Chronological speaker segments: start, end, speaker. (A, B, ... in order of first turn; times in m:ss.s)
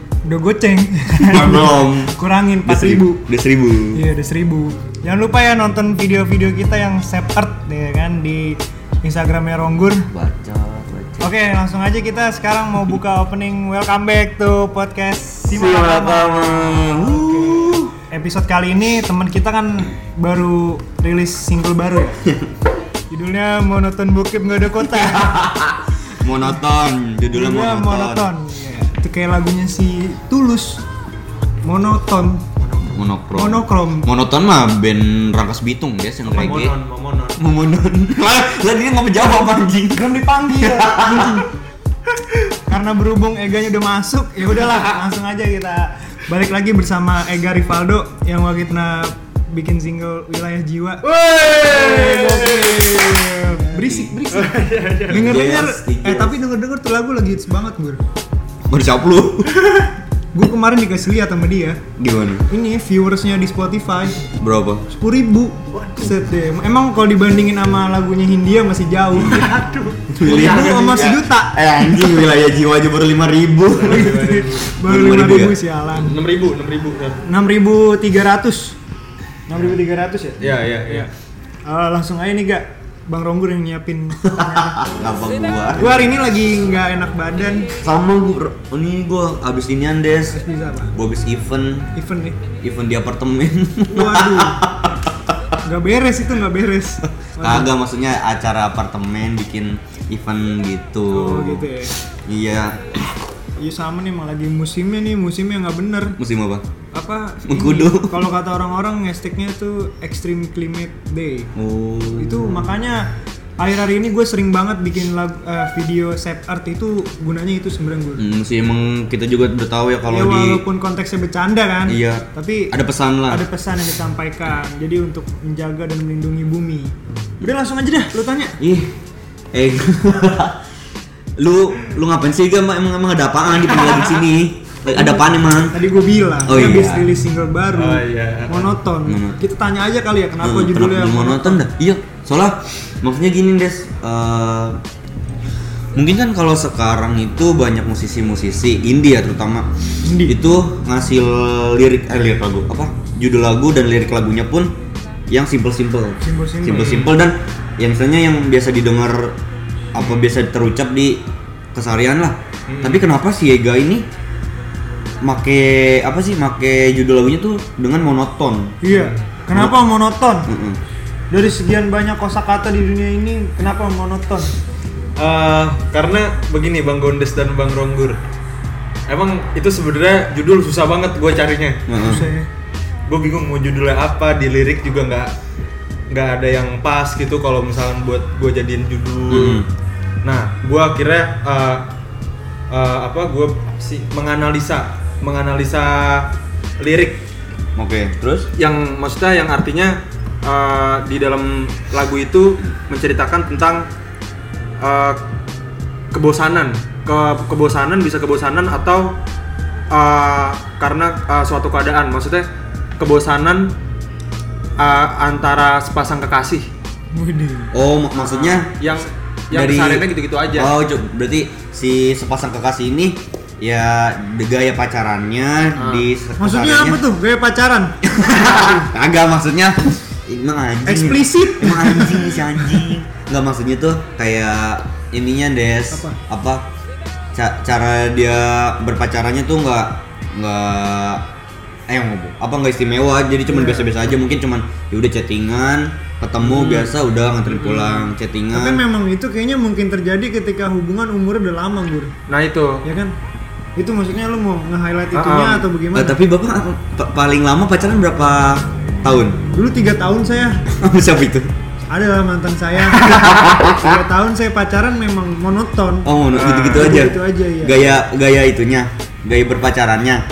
0:00.3-0:03.2 A
0:01.2-0:04.0 B
0:03.9-0:10.1 A
0:10.1-0:11.3 B
0:11.2-0:22.2 A
0:15.5-0:17.9 B
0:23.1-0:25.5 A
0:24.8-0:28.3 B
0:27.3-0:30.8 A
0:31.6-0:32.5 A
0:32.6-0:33.0 C
0:32.9-0:36.8 B
0:33.4-0:34.1 A
0:36.3-0:37.4 C
0:37.4-0:41.4 B
0:40.0-0:41.5 A
0:42.7-0:51.1 A
0:51.0-0:53.4 C
0:51.7-0:58.0 A
0:53.7-0:54.2 B
0:54.3-0:55.4 C
0:55.1-0:56.4 B
0:58.7-0:59.6 B
1:00.3-1:01.8 A
1:02.0-1:02.5 B
1:02.5-1:04.3 A
1:04.4-1:04.8 B
1:04.9-1:09.6 A
1:09.2-1:11.0 C
1:10.1-1:12.2 A
1:10.1-1:14.2 B
1:13.7-1:14.7 C
1:13.8-1:16.2 A
1:14.8-1:15.6 B
1:16.0-1:17.2 C
1:17.3-1:18.8 A
1:19.5-1:21.1 A
1:20.4-1:21.1 C
1:21.7-1:24.9 A
1:24.2-1:26.1 B
1:25.7-1:27.7 A
1:27.8-1:30.4 B
1:30.3-1:30.9 A
1:30.9-1:31.9 B
1:31.9-1:32.4 A
1:32.6-1:35.6 B
1:33.9-1:34.6 A
1:35.6-1:37.7 A
1:37.4-1:41.7 B
1:41.1-1:41.9 A
1:42.3-1:43.2 B
1:43.6-1:46.2 A
1:46.2-1:46.6 B
1:46.9-1:51.5 A
1:47.4-1:48.2 B
1:51.6-1:52.7 B
1:52.2-1:58.2 A
1:58.2-2:00.6 B
2:00.1-2:02.8 A
2:01.9-2:03.4 B
2:03.3-2:08.6 A
2:08.6-2:08.9 B
2:09.5-2:10.6 B
2:11.4-2:15.8 B
2:14.9-2:21.6 A
2:16.4-2:17.1 B
2:17.7-2:18.7 C
2:19.0-2:19.4 B
2:20.4-2:24.8 B
2:26.0-2:29.7 B
2:30.0-2:30.4 A
2:30.2-2:34.7 B
2:35.3-2:39.4 B
2:36.2-2:37.0 A
2:36.7-2:37.1 C
2:39.9-2:41.2 B
2:40.0-2:40.3 C
2:41.7-2:44.1 B
2:42.7-2:43.0 C
2:45.2-2:48.8 B
2:48.8-2:50.5 A
2:48.9-2:49.2 C
2:50.5-2:50.8 B
2:51.3-2:54.5 A
2:55.2-2:58.2 C
2:59.1-3:01.8 C
3:01.9-3:02.3 B
3:02.0-3:02.5 A
3:03.1-3:05.3 C
3:06.1-3:09.6 C
3:09.3-3:09.7 B
3:10.2-3:11.9 C
3:12.7-3:17.2 C
3:17.8-3:18.5 B
3:18.6-3:23.9 C
3:24.8-3:25.2 C
3:26.1-3:29.2 C
3:29.9-3:32.5 C
3:33.0-3:33.7 C
3:34.8-3:36.7 C
3:37.1-3:37.7 A
3:37.7-3:38.7 B
3:38.2-3:40.7 C
3:39.5-3:47.0 B
3:45.8-3:46.1 C
3:46.4-3:48.0 A
3:48.0-3:56.6 B
3:50.8-3:52.8 A
3:55.9-3:56.2 A
3:57.3-4:01.2 B
4:01.9-4:08.8 B
4:03.5-4:04.0 A
4:06.4-4:07.0 C
4:07.5-4:08.1 C
4:08.5-4:12.1 A
4:12.3-4:12.8 C
4:12.8-4:13.1 A
4:13.8-4:16.2 A
4:15.1-4:15.7 C
4:15.9-4:19.4 B
4:19.5-4:20.6 A
4:20.7-4:21.5 B
4:21.9-4:26.1 A
4:23.0-4:24.0 B
4:26.0-4:30.2 B
4:26.3-4:27.0 C
4:26.7-4:28.0 A